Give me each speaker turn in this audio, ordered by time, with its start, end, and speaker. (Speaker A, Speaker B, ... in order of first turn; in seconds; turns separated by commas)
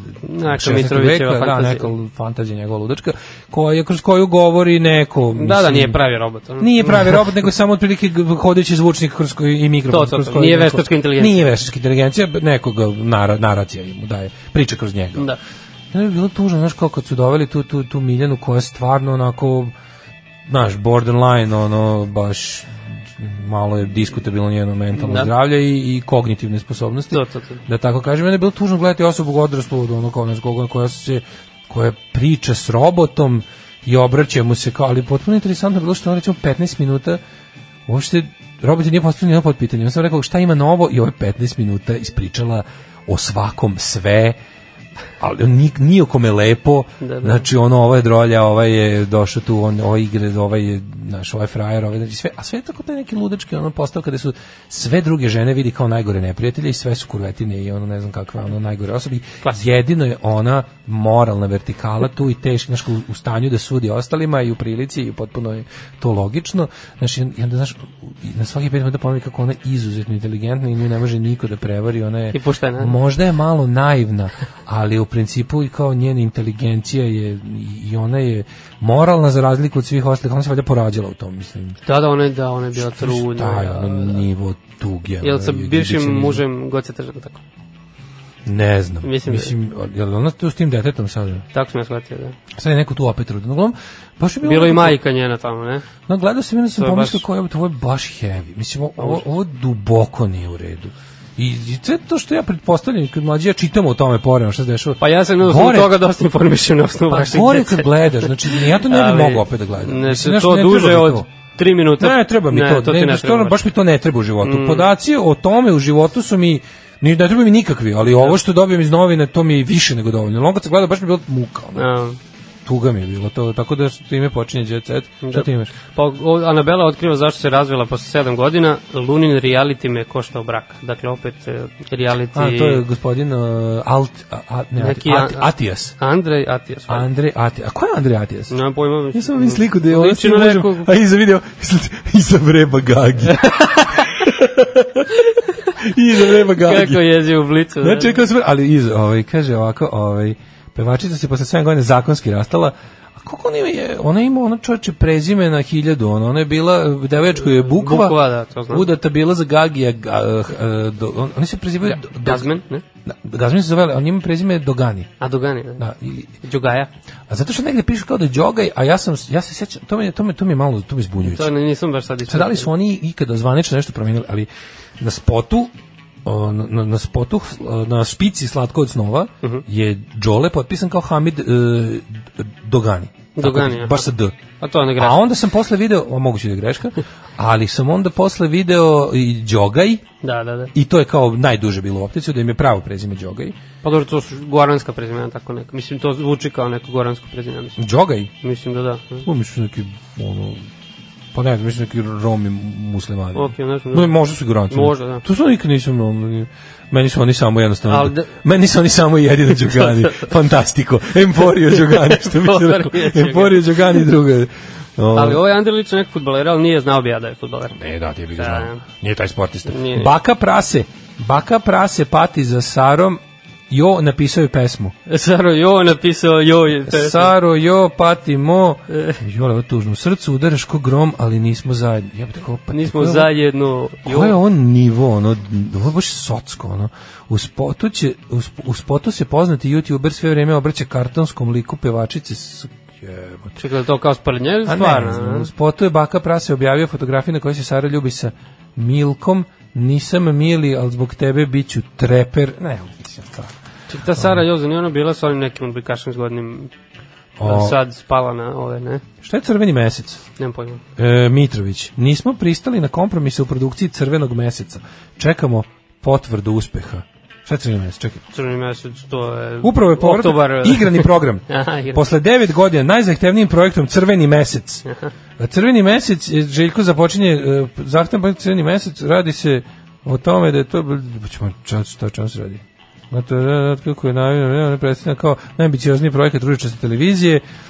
Speaker A: 0.2-1.9, Speaker B: 0.5-6.0, Speaker A: 5.3-7.3, Speaker B: 6.6-15.3, Speaker A: 9.9-11.5, Speaker B: 15.9-19.7, Speaker B: 20.5-37.2, Speaker A: 25.0-25.3, Speaker A: 27.1-27.6, Speaker B: 37.9-44.4, Speaker B: 45.2-81.8, Speaker A: 47.0-47.5, Speaker A: 72.3-73.0, Speaker A: 81.9-84.2, Speaker B: 82.8-86.4, Speaker A: 85.2-87.4, Speaker B: 88.5-91.5, Speaker A: 89.0-89.5, Speaker A: 91.5-92.4, Speaker B: 92.5-95.0, Speaker A: 94.4-95.8, Speaker B: 96.1-106.0, Speaker A: 96.8-97.2, Speaker A: 99.0-99.2, Speaker A: 105.0-113.6, Speaker B: 107.1-111.3, Speaker B: 112.0-121.9, Speaker A: 114.4-114.9, Speaker A: 118.0-118.4, Speaker A: 121.8-122.2, Speaker B: 122.7-125.7, Speaker A: 125.2-132.8, Speaker B: 132.3-135.9, Speaker A: 134.8-137.1, Speaker B: 136.9-138.6, Speaker A: 138.5-140.9, Speaker B: 139.1-145.1, Speaker A: 143.3-144.2, Speaker A: 145.2-148.2, Speaker B: 145.8-147.1, Speaker B: 147.8-162.5, Speaker A: 157.4-158.9, Speaker A: 161.8-162.8, Speaker B: 163.1-165.1, Speaker A: 165.2-165.9, Speaker B: 165.8-166.3, Speaker A: 166.4-166.9, Speaker B: 167.3-171.5, Speaker A: 171.2-172.7, Speaker B: 172.3-174.5, Speaker B: 175.0-175.7, Speaker B: 176.2-184.3, Speaker A: 183.4-184.1, Speaker A: 184.6-185.2, Speaker B: 185.0-190.1, Speaker A: 190.2-190.7, Speaker B: 190.7-193.6, Speaker A: 193.8-197.8, Speaker B: 197.8-198.3, Speaker A: 198.4-199.3, Speaker B: 199.2-200.7, Speaker B: 201.3-215.4, Speaker A: 203.3-204.1, Speaker A: 204.7-205.2, Speaker A: 207.9-208.3, Speaker A: 209.7-210.3, Speaker A: 211.6-214.0, Speaker A: 215.1-217.8, Speaker B: 217.7-224.9, Speaker A: 218.4-218.8, Speaker A: 219.7-220.1, Speaker A: 225.1-227.3, Speaker B: 226.9-233.3, Speaker A: 228.9-229.2, Speaker A: 232.7-234.3, Speaker B: 234.0-243.6, Speaker A: 243.6-245.5, Speaker B: 244.7-253.5, Speaker A: 253.9-256.7, Speaker B: 254.2-254.4, Speaker B: 257.4-257.8, Speaker A: 257.4-259.0, Speaker B: 259.2-260.2, Speaker A: 260.4-260.8, Speaker B: 261.0-268.2, Speaker A: 268.3-272.0, Speaker B: 269.6-274.9, Speaker A: 274.9-275.1, Speaker B: 275.4-287.4